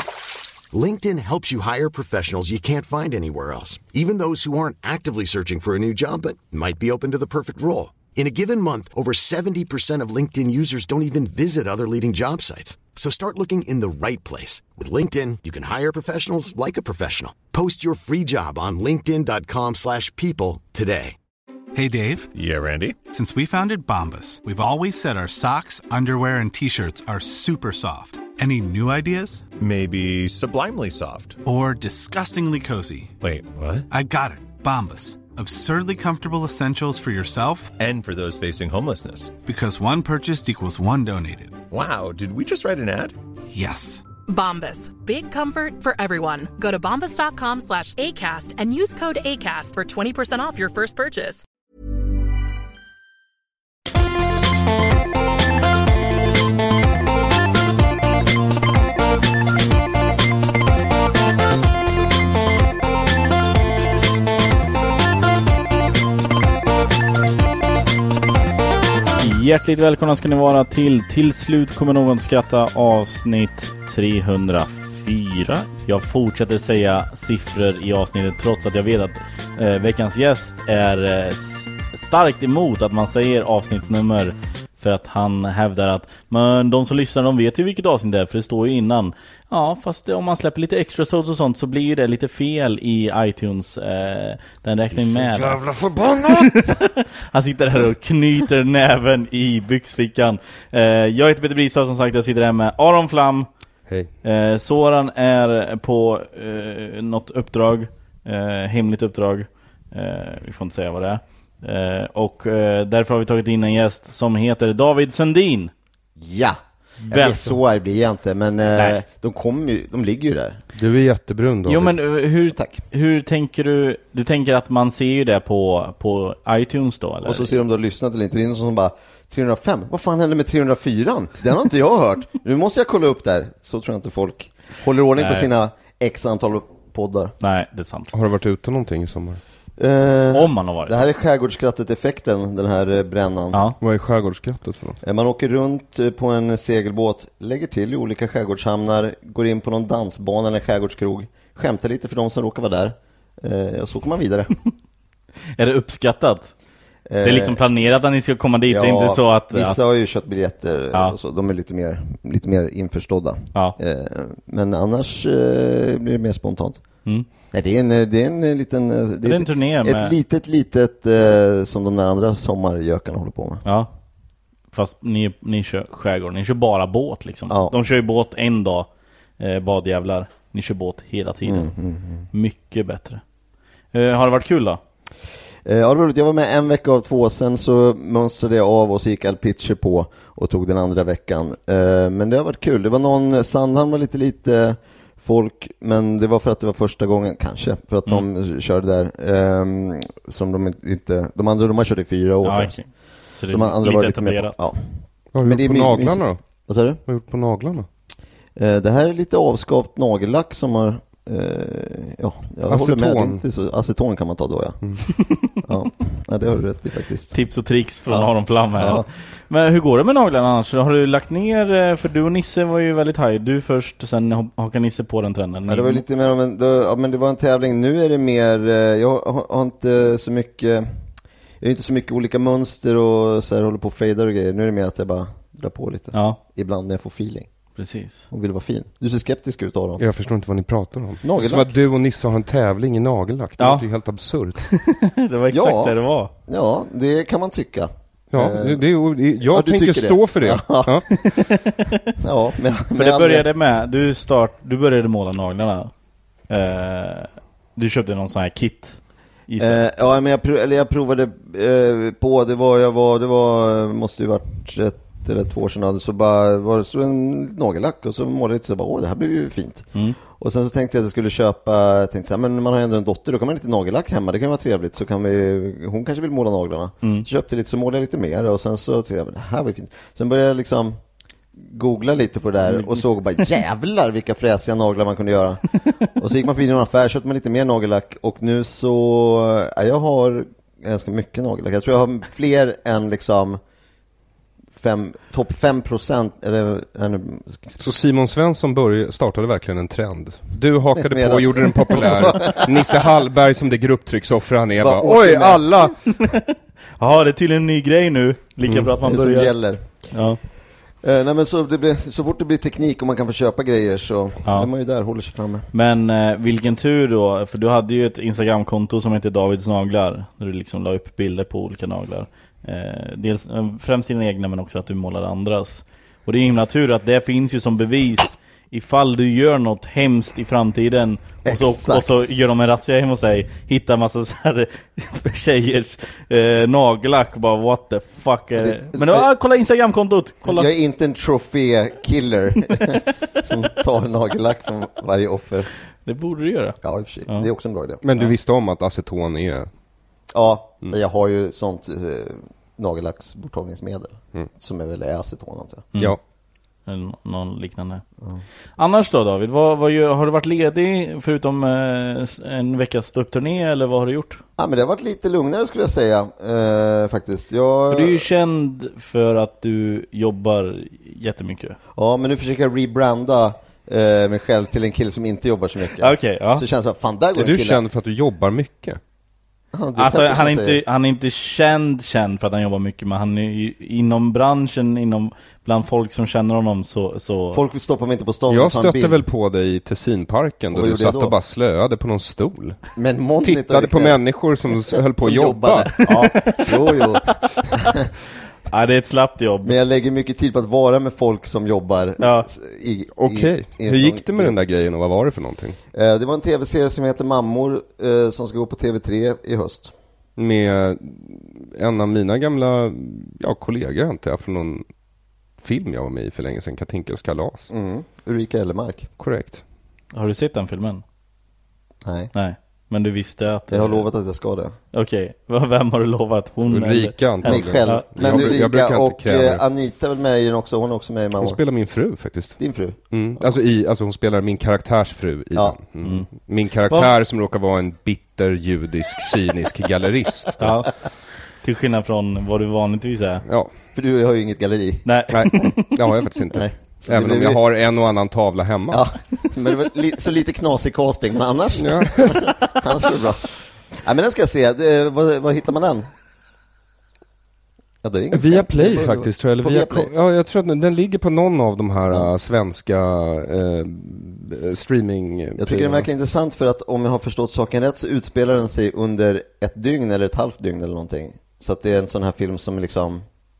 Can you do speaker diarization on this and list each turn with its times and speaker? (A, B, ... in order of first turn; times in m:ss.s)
0:00.7-0:21.2 A
0:21.7-0:22.3 B
0:22.3-0:23.0 C
0:23.1-0:29.4 B
0:29.6-0:31.4 C
0:31.4-0:33.1 B
0:33.2-0:33.9 C
0:33.9-0:37.7 B
0:37.8-0:39.3 C
0:39.4-0:41.6 B
0:41.7-0:43.2 C
0:43.5-0:44.0 B
0:44.3-0:51.4 D
1:09.2-1:35.6 E
1:35.0-1:36.6 F
1:36.3-1:43.5 E
1:44.2-1:55.7 E
1:56.2-2:00.6 G
1:57.1-1:57.5 E
1:58.8-1:59.0 E
2:00.8-2:02.0 F
2:01.6-2:07.5 E
2:02.5-2:02.8 G
2:07.2-2:17.3 G
2:15.2-2:15.5 E
2:17.4-2:18.1 E
2:18.1-2:19.4 F
2:19.8-2:23.6 G
2:20.3-2:21.0 E
2:23.5-2:23.8 E
2:23.8-2:25.0 F
2:25.0-2:34.5 G
2:35.6-2:36.5 E
2:37.1-2:37.6 G
2:37.2-2:39.8 E
2:38.7-2:46.8 G
2:47.5-2:53.6 G
2:49.2-2:50.2 E
2:53.6-2:53.9 E
2:54.7-2:58.9 E
2:57.5-2:57.8 G
2:59.4-3:01.7 E
3:01.4-3:02.3 G
3:02.3-3:03.2 E
3:03.9-3:04.8 E
3:05.6-3:22.8 G
3:22.4-3:24.6 E
3:23.5-3:24.8 G
3:25.3-3:26.4 F
3:25.4-3:27.0 G
3:27.0-3:27.9 F
3:28.6-3:34.8 G
3:32.7-3:33.4 F
3:35.6-3:37.4 G
3:37.3-3:46.0 E
3:38.1-3:39.1 G
3:45.7-3:50.9 G
3:51.6-3:57.5 G
3:56.1-3:56.4 E
3:57.8-3:58.3 E
3:58.3-4:00.0 G
4:00.0-4:04.6 F
4:01.2-4:01.7 G
4:03.6-4:03.8 E
4:04.7-4:06.3 E
4:05.5-4:08.8 G
4:08.3-4:11.1 F
4:09.5-4:11.0 G
4:11.2-4:12.1 E
4:12.2-4:13.5 G
4:12.9-4:15.9 E
4:16.5-4:19.8 E
4:19.6-4:41.0 G
4:41.6-4:53.6 G
4:42.7-4:43.0 E
4:54.8-4:57.8 G
4:57.8-5:06.0 F
5:00.9-5:03.1 G
5:04.8-5:05.9 G
5:07.0-5:09.5 E
5:09.0-5:09.9 G
5:10.1-5:10.4 E
5:11.0-5:15.7 G
5:15.7-5:40.7 E
5:31.4-5:32.3 G
5:38.6-5:39.3 G
5:40.4-5:45.7 G
5:46.0-5:46.8 E
5:46.8-5:48.0 G
5:48.0-5:49.7 F
5:50.3-5:55.9 G
5:56.9-5:58.0 E
5:58.8-6:04.4 E
6:04.6-6:08.3 G
6:07.9-6:11.8 E
6:11.9-6:17.8 G
6:16.0-6:16.7 E
6:17.4-6:19.0 F
6:19.7-6:20.8 G
6:20.0-6:27.6 E
6:27.5-6:29.2 G
6:28.5-6:32.8 F
6:30.7-6:31.3 G
6:33.0-6:38.1 G
6:33.4-6:36.5 F
6:36.0-6:36.7 E
6:38.7-6:39.8 E
6:39.6-6:44.6 G
6:42.2-6:42.5 E
6:43.2-6:45.8 F
6:45.9-6:49.9 G
6:50.4-6:54.9 F
6:55.6-6:57.7 F
6:57.7-6:59.1 G
6:59.2-6:59.6 F
7:00.1-7:01.0 E
7:02.0-7:02.3 G
7:02.3-7:04.1 E
7:03.7-7:04.8 G
7:04.9-7:08.4 E
7:06.7-7:09.6 F
7:07.4-7:11.6 G
7:11.4-7:12.6 F
7:12.6-7:13.5 G
7:13.1-7:20.8 F
7:16.0-7:16.3 E
7:16.9-7:17.1 E
7:20.6-7:20.9 E
7:21.6-7:23.4 E
7:23.9-7:25.1 G
7:25.0-7:25.9 E
7:25.3-7:29.1 F
7:26.5-7:27.6 G
7:28.9-7:36.1 G
7:31.8-7:32.5 F
7:38.0-7:40.1 G
7:38.3-7:46.1 F
7:45.6-7:53.2 G